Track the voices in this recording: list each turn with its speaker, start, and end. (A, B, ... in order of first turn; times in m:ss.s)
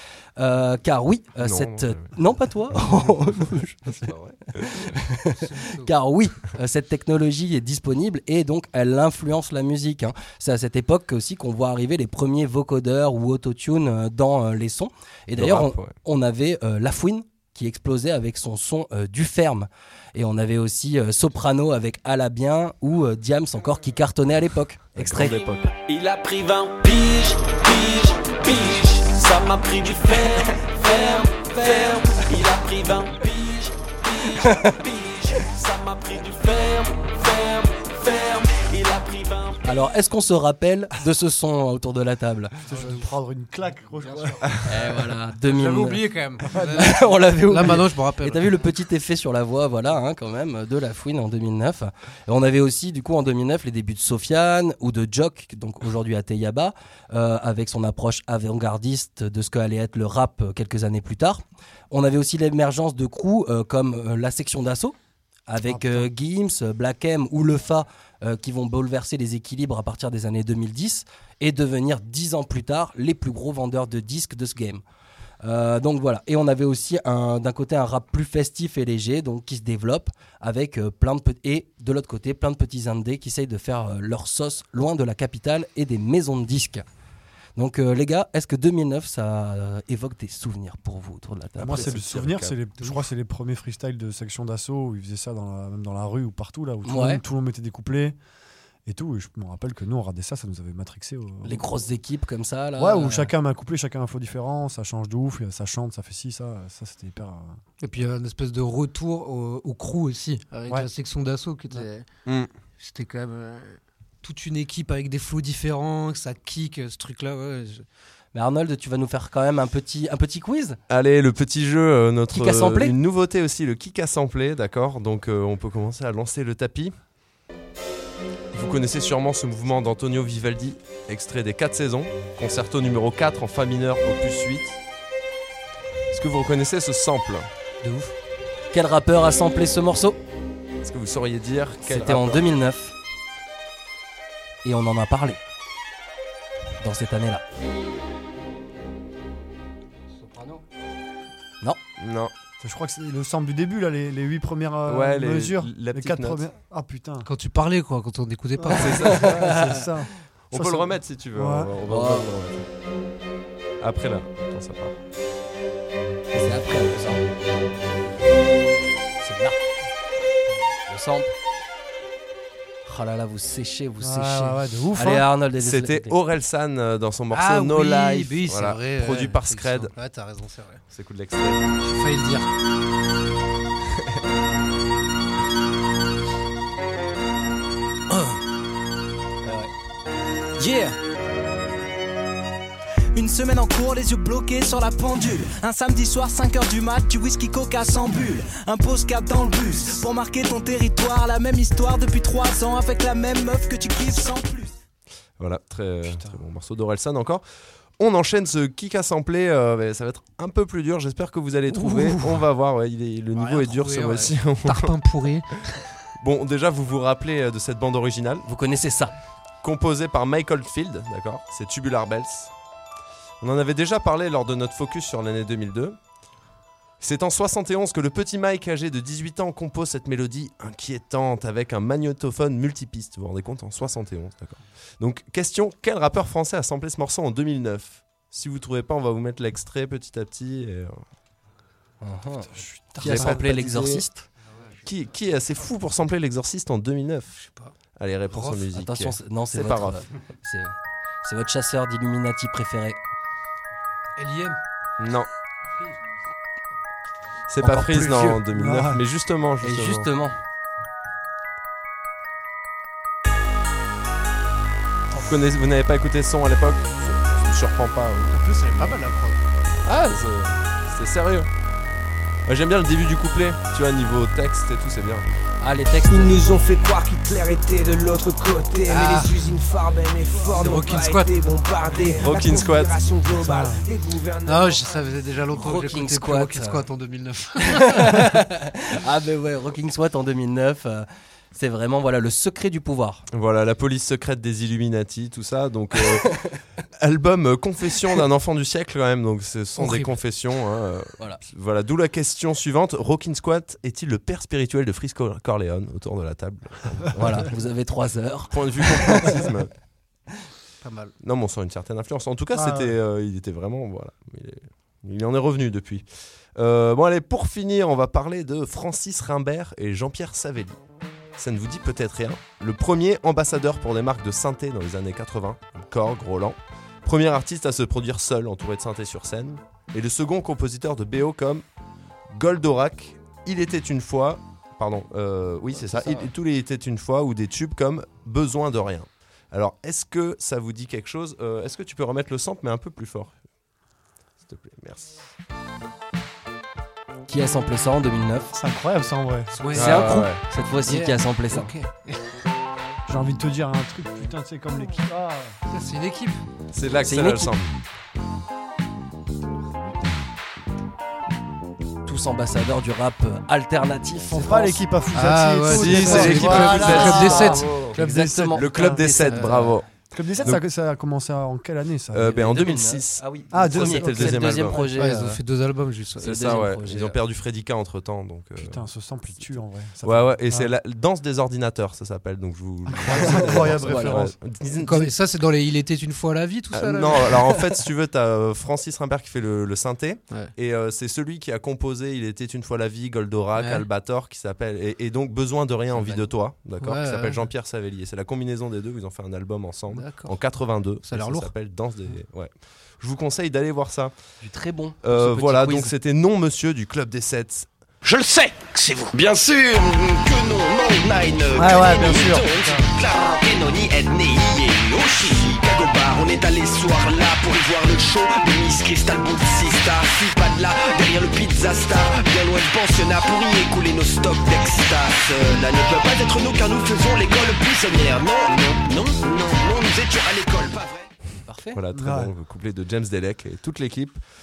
0:00.4-0:25.4 A
0:01.4-0:02.1 B
0:03.9-0:04.9 B
0:05.3-0:05.9 C
0:15.4-0:15.9 B
0:25.0-0:25.7 B
0:25.7-0:39.6 D
0:39.6-0:42.6 A
0:42.6-0:43.0 C
0:42.7-0:45.0 E
0:44.0-0:44.5 C
0:44.6-1:05.0 A
0:45.4-0:48.5 C
0:46.4-0:46.9 E
1:05.5-1:14.8 A
1:05.6-1:06.1 E
1:15.4-1:26.8 A
1:27.6-1:32.0 A
1:31.6-1:38.2 E
1:31.7-1:32.6 B
1:36.8-1:37.2 A
1:38.9-1:41.6 E
1:41.4-1:43.3 A
1:42.8-1:47.6 E
1:47.8-1:52.1 C
1:52.3-1:52.5 B
1:52.8-1:57.9 C
1:58.3-2:00.8 A
2:00.9-2:07.0 B
2:02.3-2:03.0 A
2:08.5-2:14.8 B
2:16.1-2:17.5 B
2:17.8-2:18.1 C
2:18.7-2:20.2 A
2:20.8-2:22.6 B
2:21.9-2:22.9 A
2:24.6-2:25.4 A
2:26.8-2:27.4 A
2:30.2-2:30.6 C
2:32.0-2:32.3 B
2:32.6-2:37.3 E
2:34.9-2:36.4 B
2:37.2-2:39.1 C
2:38.6-2:41.7 E
2:38.7-2:39.3 B
2:39.0-2:39.9 A
2:40.5-2:42.7 B
2:41.9-2:42.3 A
2:43.8-2:45.0 B
2:46.3-2:47.3 A
2:49.2-2:49.6 A
2:50.9-2:51.3 A
2:52.9-2:56.2 A
2:54.0-2:55.3 E
2:55.6-2:59.9 B
2:57.3-3:00.8 C
3:00.9-3:01.6 B
3:01.8-3:02.5 C
3:09.4-3:09.7 A
3:10.6-3:11.0 F
3:13.1-3:24.7 F
3:25.4-3:27.4 B
3:26.0-3:26.4 E
3:28.0-3:35.0 B
3:31.7-3:32.1 C
3:33.3-3:35.8 C
3:36.2-3:38.5 B
3:38.5-3:39.1 A
3:39.6-3:42.5 B
3:43.4-3:46.0 B
3:47.0-4:01.0 B
4:02.0-4:04.3 A
4:02.6-4:03.4 E
4:03.0-4:04.0 B
4:04.8-4:07.4 B
4:07.4-4:07.7 C
4:08.0-4:10.0 B
4:08.3-4:08.7 C
4:08.8-4:13.0 A
4:14.2-4:14.6 C
4:15.0-4:15.3 B
4:17.5-4:20.1 B
4:17.6-4:18.4 A
4:18.5-4:19.0 E
4:19.6-4:20.4 A
4:25.1-4:29.0 B
4:28.3-4:29.4 C
4:29.8-4:31.5 B
4:32.5-4:35.3 B
4:35.6-4:36.6 A
4:36.1-4:45.0 G
4:38.9-4:39.4 C
4:40.6-4:41.3 C
4:42.1-4:43.0 B
4:43.4-4:43.9 E
4:44.5-4:48.0 C
4:45.5-4:46.8 A
4:47.6-4:53.2 A
4:53.3-4:56.3 B
4:56.2-4:56.6 A
4:57.0-5:07.3 B
4:59.8-5:00.2 C
5:07.1-5:09.5 A
5:08.5-5:09.7 B
5:10.8-5:11.1 C
5:11.2-5:20.8 B
5:12.5-5:12.9 E
5:21.4-5:31.7 B
5:32.3-5:43.4 B
5:35.8-5:36.3 A
5:44.4-5:45.3 B
5:47.3-5:48.6 A
5:48.5-5:49.6 E
5:49.5-5:50.2 C
5:49.7-5:50.4 B
5:49.8-5:51.7 A
5:50.8-5:52.2 C
5:53.1-5:55.6 E
5:55.7-5:56.4 C
5:56.7-5:57.7 B
5:57.0-5:57.5 A
6:02.0-6:04.8 A
6:04.3-6:07.2 E
6:05.1-6:07.6 C
6:05.7-6:09.9 B
6:06.0-6:09.6 A
6:08.0-6:09.2 E
6:09.2-6:09.8 C
6:10.1-6:12.3 E
6:12.1-6:14.9 B
6:12.2-6:15.4 A
6:13.5-6:15.1 E
6:15.0-6:16.3 C
6:16.2-6:18.9 B
6:16.2-6:17.2 A
6:18.6-6:20.7 E
6:20.0-6:25.1 B
6:22.9-6:24.4 E
6:23.1-6:24.3 A
6:24.8-6:27.3 C
6:26.7-6:44.1 B
6:33.6-6:33.9 C
6:35.9-6:36.4 A
6:36.8-6:37.5 C
6:39.9-6:40.4 C
6:41.0-6:41.5 C
6:44.4-6:45.9 A
6:45.0-6:47.7 B
6:48.0-7:11.1 D
6:51.5-6:53.0 E
7:11.5-7:11.8 A
7:11.7-7:14.2 B
7:12.0-7:12.3 E